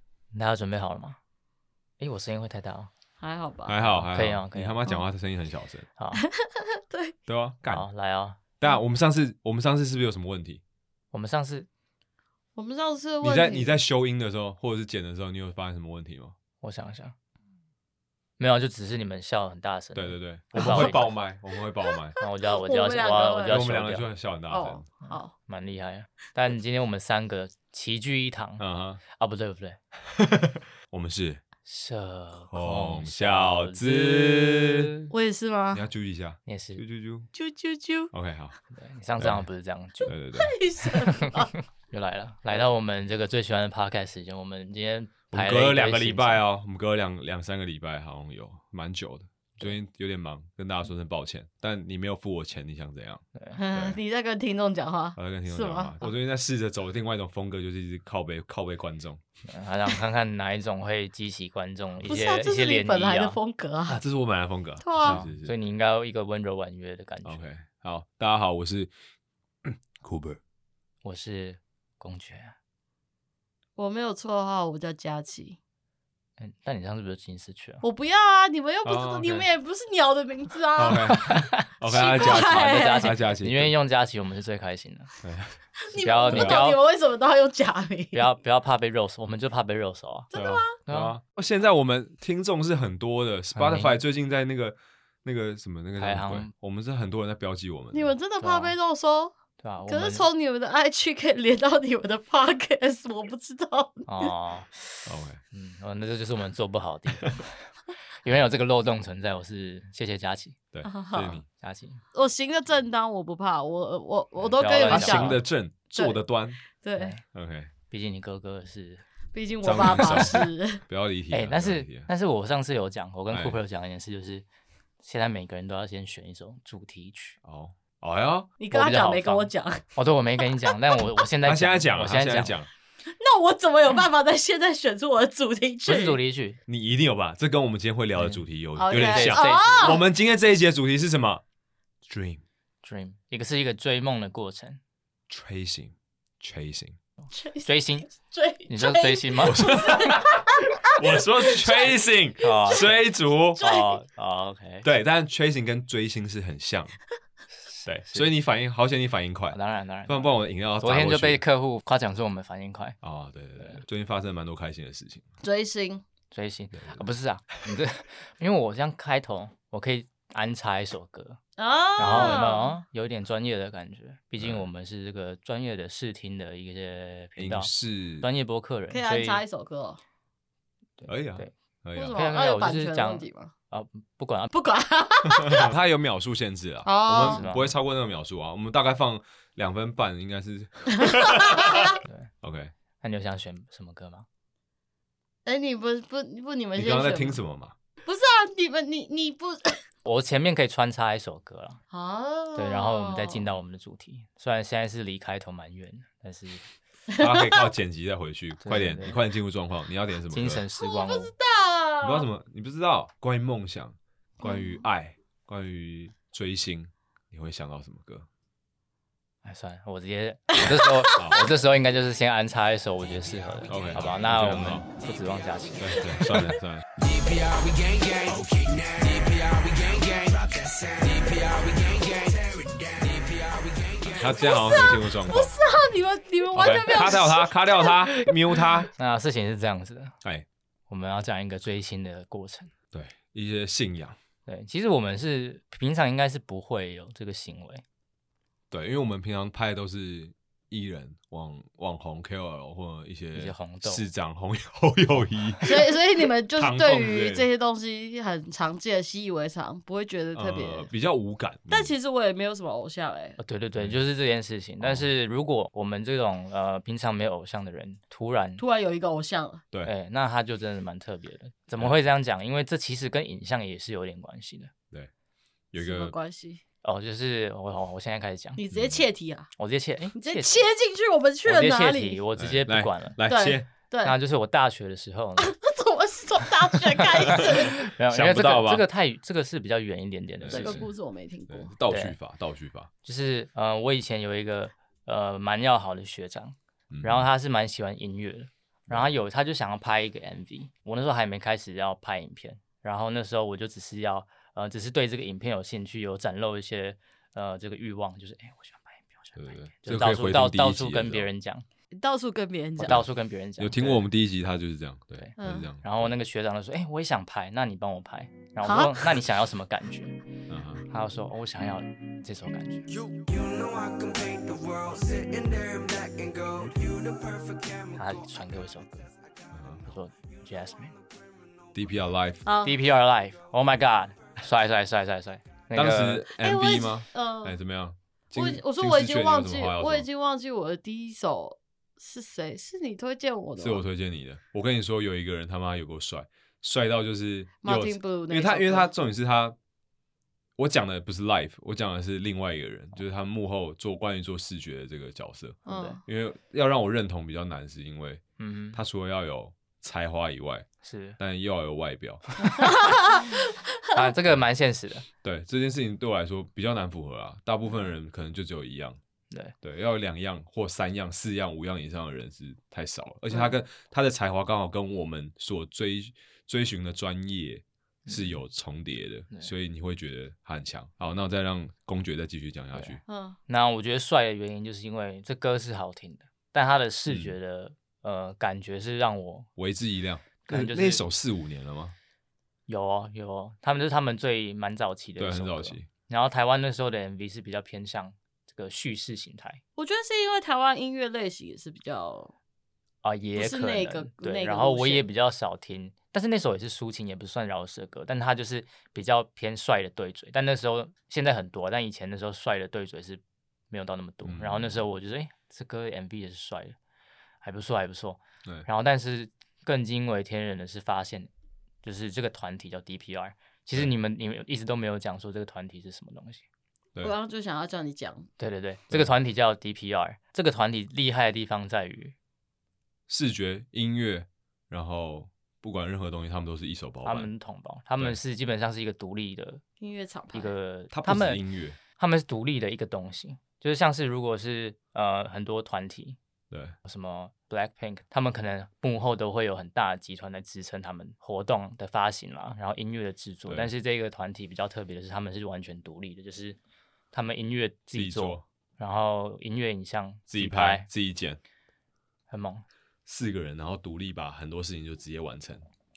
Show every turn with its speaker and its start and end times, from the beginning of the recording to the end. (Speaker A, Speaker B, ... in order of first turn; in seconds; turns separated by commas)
Speaker A: 0.3-1.2, Speaker A: 2.0-2.9, Speaker B: 3.2-3.8, Speaker C: 3.7-5.8, Speaker A: 3.8-4.8, Speaker A: 6.0-6.2, Speaker B: 6.1-7.2, Speaker C: 7.3-7.8, Speaker A: 7.7-8.4, Speaker C: 8.6-10.6, Speaker A: 11.1-11.7, Speaker B: 12.5-13.8, Speaker C: 13.2-16.3, Speaker A: 16.6-17.1, Speaker A: 18.4-21.1, Speaker C: 19.9-22.2, Speaker B: 20.6-21.0, Speaker A: 22.2-24.1, Speaker B: 22.4-23.7, Speaker C: 23.5-24.8, Speaker B: 24.5-25.3, Speaker A: 25.0-29.8, Speaker C: 28.6-29.0, Speaker C: 30.1-31.4, Speaker A: 31.6-35.1, Speaker C: 32.5-34.9, Speaker B: 35.1-35.8, Speaker C: 35.7-37.3, Speaker A: 36.5-36.8, Speaker B: 37.3-38.1, Speaker C: 38.1-38.5, Speaker A: 38.7-40.1, Speaker C: 39.2-39.4, Speaker C: 40.0-40.5, Speaker B: 40.3-41.5, Speaker A: 40.9-46.4, Speaker C: 45.3-54.0, Speaker A: 53.3-53.6, Speaker B: 53.5-56.1, Speaker C: 55.1-59.2, Speaker A: 59.5-63.4, Speaker B: 62.0-64.0, Speaker C: 63.9-65.5, Speaker B: 64.8-65.2, Speaker A: 65.0-67.4, Speaker C: 67.2-68.9, Speaker C: 69.6-70.4, Speaker A: 71.0-72.5, Speaker B: 73.8-75.6, Speaker A: 76.4-77.8, Speaker B: 77.8-83.2, Speaker C: 78.8-79.5, Speaker C: 80.8-83.7, Speaker A: 81.1-85.1, Speaker C: 85.2-85.6, Speaker B: 85.9-88.3, Speaker A: 86.0-86.8, Speaker C: 86.3-86.6, Speaker A: 88.1-90.3, Speaker B: 90.3-90.8, Speaker C: 90.3-98.1, Speaker A: 90.8-91.2, Speaker A: 93.5-93.9, Speaker A: 96.0-96.5, Speaker B: 97.9-99.3, Speaker A: 98.4-98.7, Speaker A: 99.6-100.3, Speaker B: 99.9-104.3, Speaker A: 104.1-107.7, Speaker C: 105.0-105.4, Speaker A: 108.2-110.6, Speaker C: 110.7-111.5, Speaker B: 110.8-111.4, Speaker A: 111.5-112.0, Speaker B: 112.1-115.4, Speaker A: 114.5-115.4, Speaker C: 114.9-116.6, Speaker B: 115.9-117.1, Speaker A: 117.0-117.2, Speaker C: 117.3-117.7, Speaker A: 117.9-119.0, Speaker B: 119.3-120.8, Speaker C: 119.6-122.1, Speaker A: 121.3-124.4, Speaker C: 123.3-123.6, Speaker A: 125.0-127.4, Speaker C: 127.4-128.5, Speaker B: 128.6-129.8, Speaker A: 128.7-132.6, Speaker B: 130.4-131.0, Speaker C: 131.4-132.7, Speaker B: 133.0-136.2, Speaker A: 135.8-136.6, Speaker C: 136.7-141.4, Speaker A: 138.2-140.0, Speaker B: 138.8-140.0, Speaker C: 142.1-142.4, Speaker A: 142.8-144.8, Speaker C: 145.3-147.0, Speaker B: 147.3-151.9, Speaker A: 147.6-148.1, Speaker A: 148.7-149.8, Speaker C: 149.4-153.6, Speaker A: 152.4-153.0, Speaker B: 152.4-152.9, Speaker B: 153.6-154.0, Speaker A: 153.6-154.8, Speaker C: 154.8-157.0, Speaker A: 157.7-158.3, Speaker C: 157.8-161.4, Speaker A: 159.5-163.0, Speaker C: 163.0-165.2, Speaker A: 163.6-163.8, Speaker B: 165.4-166.0, Speaker A: 166.3-171.4, Speaker C: 166.7-167.0, Speaker B: 171.6-172.8, Speaker A: 172.0-177.7, Speaker C: 174.4-174.7, Speaker C: 177.4-178.2, Speaker A: 178.2-179.4, Speaker B: 178.9-180.0, Speaker A: 181.0-181.5, Speaker C: 181.1-182.2, Speaker B: 181.9-183.5, Speaker A: 182.1-184.5, Speaker B: 184.5-185.7, Speaker C: 185.3-192.7, Speaker B: 186.8-187.4, Speaker A: 187.1-187.7, Speaker B: 191.0-192.0, Speaker A: 192.0-192.3, Speaker A: 193.0-194.2, Speaker B: 195.4-197.4, Speaker C: 196.8-197.7, Speaker B: 198.0-199.8, Speaker A: 200.0-201.8, Speaker B: 201.9-203.5, Speaker A: 202.5-206.7, Speaker B: 207.1-207.7, Speaker C: 207.2-210.6, Speaker A: 208.6-209.2, Speaker A: 210.3-211.3, Speaker B: 210.8-212.3, Speaker C: 212.0-218.3, Speaker B: 214.4-214.8, Speaker A: 219.4-226.4, Speaker B: 220.6-221.1, Speaker C: 221.1-221.4, Speaker D: 223.7-224.0, Speaker C: 223.7-224.9, Speaker D: 224.9-226.1, Speaker C: 225.8-226.8, Speaker B: 226.1-226.4, Speaker D: 226.9-234.8, Speaker C: 234.0-235.6, Speaker B: 234.3-238.1, Speaker C: 236.5-238.9, Speaker A: 238.9-240.2, Speaker A: 240.9-242.7, Speaker C: 242.9-244.2, Speaker A: 244.4-247.8, Speaker C: 248.7-255.9, Speaker A: 253.3-254.0, Speaker B: 255.6-260.9, Speaker C: 256.6-257.5, Speaker C: 260.3-261.9, Speaker B: 261.7-263.4, Speaker A: 263.4-268.6, Speaker C: 264.8-265.1, Speaker B: 268.6-269.6, Speaker A: 269.8-274.7, Speaker C: 275.7-276.1, Speaker B: 275.8-276.6, Speaker A: 276.8-278.6, Speaker B: 278.6-279.5, Speaker C: 278.7-279.0, Speaker A: 279.6-280.6, Speaker B: 280.1-282.2, Speaker A: 281.4-283.2, Speaker C: 282.4-283.7, Speaker B: 283.2-284.2, Speaker A: 284.0-285.6, Speaker B: 285.4-287.8, Speaker A: 286.9-290.9, Speaker C: 288.1-288.8, Speaker C: 290.4-290.9, Speaker B: 290.5-291.7, Speaker C: 291.5-292.9, Speaker A: 291.9-292.1, Speaker A: 293.0-311.6, Speaker C: 296.9-297.3, Speaker C: 309.4-311.3, Speaker B: 311.9-313.1, Speaker C: 312.8-313.1, Speaker A: 312.8-314.1, Speaker C: 313.6-315.8, Speaker A: 315.2-320.2, Speaker B: 315.4-315.7, Speaker B: 318.6-319.3, Speaker C: 320.5-320.9, Speaker A: 320.8-322.9, Speaker D: 322.9-328.6, Speaker A: 327.9-329.1, Speaker C: 329.5-329.9, Speaker A: 329.8-330.9, Speaker D: 330.9-331.3, Speaker C: 331.7-332.4, Speaker B: 332.4-332.8, Speaker A: 332.6-336.3, Speaker C: 335.7-340.1, Speaker B: 336.4-337.6, Speaker B: 338.3-343.8, Speaker C: 343.6-349.6, Speaker B: 347.6-348.9, Speaker C: 350.6-358.2, Speaker B: 355.6-356.0, Speaker A: 355.7-356.0, Speaker A: 358.4-358.8, Speaker C: 358.7-360.7, Speaker A: 360.8-361.2, Speaker C: 361.2-362.6, Speaker A: 362.4-363.4, Speaker B: 362.6-364.1, Speaker A: 363.9-365.1, Speaker C: 365.2-369.0, Speaker C: 369.6-383.0, Speaker A: 378.1-378.4, Speaker A: 382.7-389.5, Speaker B: 383.1-383.4, Speaker C: 387.1-387.3, Speaker C: 389.6-391.9, Speaker A: 390.4-391.0, Speaker A: 392.7-399.6, Speaker C: 395.2-395.9, Speaker B: 399.8-402.3, Speaker A: 403.0-416.8, Speaker B: 403.4-405.0, Speaker C: 414.2-414.8, Speaker A: 417.4-421.3, Speaker A: 421.8-426.4, Speaker B: 427.0-428.3, Speaker A: 428.4-432.1, Speaker C: 433.1-437.3, Speaker A: 437.0-439.6, Speaker B: 439.8-440.5, Speaker A: 440.3-441.4, Speaker C: 440.9-441.8, Speaker A: 441.9-446.2, Speaker A: 446.8-456.6, Speaker A: 457.1-460.9, Speaker C: 457.9-458.4, Speaker C: 460.3-461.4, Speaker A: 462.3-462.6, Speaker C: 463.1-465.6